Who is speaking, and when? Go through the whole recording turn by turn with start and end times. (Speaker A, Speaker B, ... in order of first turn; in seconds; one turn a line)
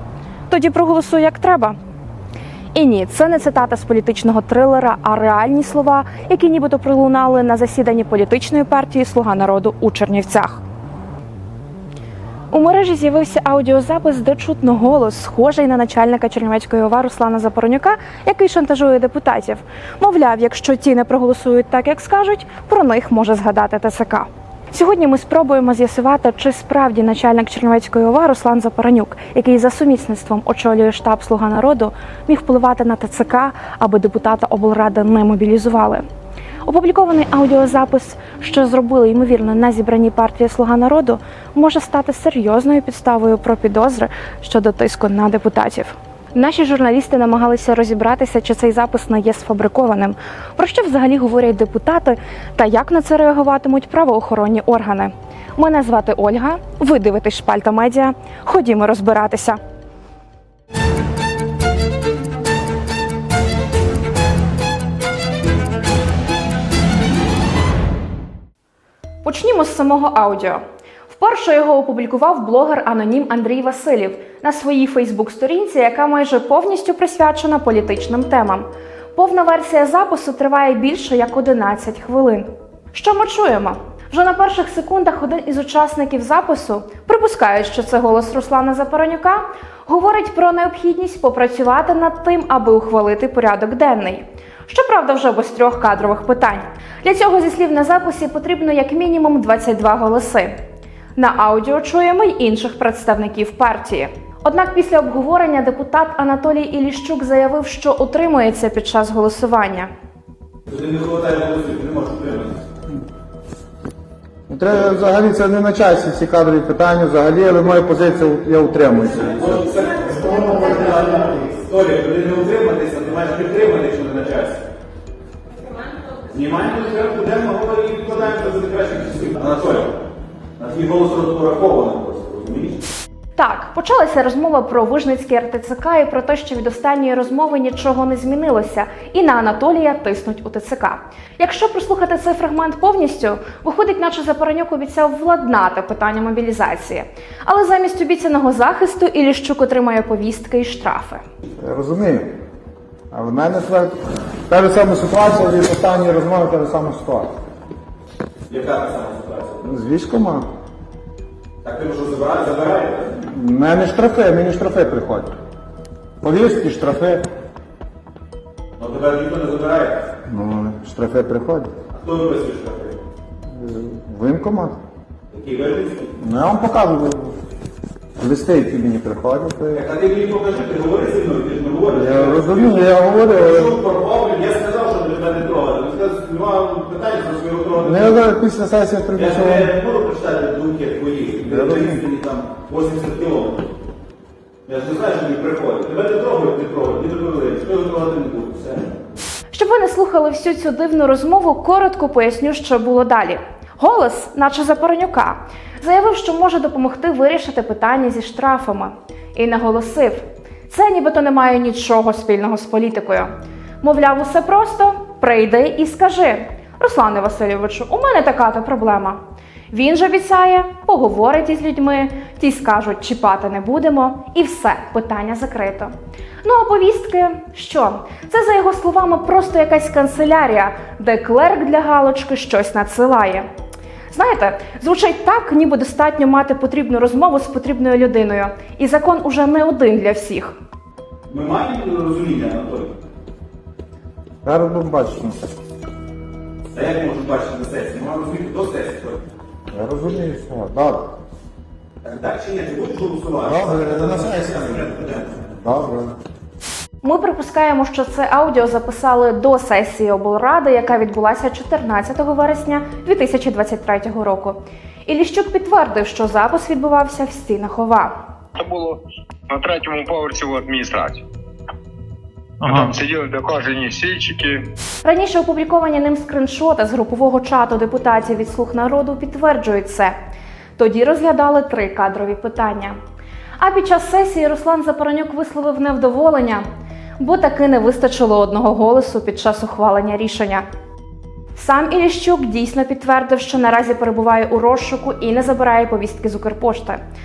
Speaker A: 0.5-1.8
Speaker A: 2.7-10.6
Speaker A: 12.5-36.0
Speaker A: 36.6-59.6
Speaker A: 69.2-100.5
Speaker A: 101.2-109.9
Speaker B: 110.7-112.6
Speaker C: 114.5-119.6
Speaker B: 119.3-124.6
Speaker B: 126.1-129.9
Speaker B: 130.6-132.8
Speaker A: 133.3-151.2
Speaker C: 151.6-152.3
Speaker C: 153.1-157.3
Speaker B: 158.5-159.7
Speaker C: 159.6-160.5
Speaker B: 161.6-163.2
Speaker C: 163.2-165.3
Speaker C: 166.2-167.2
Speaker B: 168.8-170.1
Speaker C: 170.2-171.7
Speaker B: 171.9-173.0
Speaker C: 173.5-174.8
Speaker B: 175.3-176.2
Speaker C: 176.2-177.4
Speaker C: 178.2-179.8
Speaker B: 179.7-188.2
Speaker C: 181.9-183.7
Speaker C: 187.8-189.7
Speaker B: 189.1-193.7
Speaker C: 191.5-192.0
Speaker B: 194.7-199.0
Speaker A: 199.5-219.2
Speaker A: 219.7-233.5
Speaker A: 234.1-240.5
Speaker B: 241.3-242.9
Speaker C: 244.4-245.4
Speaker B: 246.7-249.2
Speaker C: 249.7-251.1
Speaker B: 252.0-255.2
Speaker C: 253.4-256.1
Speaker A: 257.0-268.2
Speaker D: 268.6-271.2
Speaker D: 272.6-274.6
Speaker A: 275.0-280.1
Speaker A: 280.8-283.0
Speaker A: 283.6-286.6
Speaker A: 287.2-290.6
Speaker A: 291.5-297.0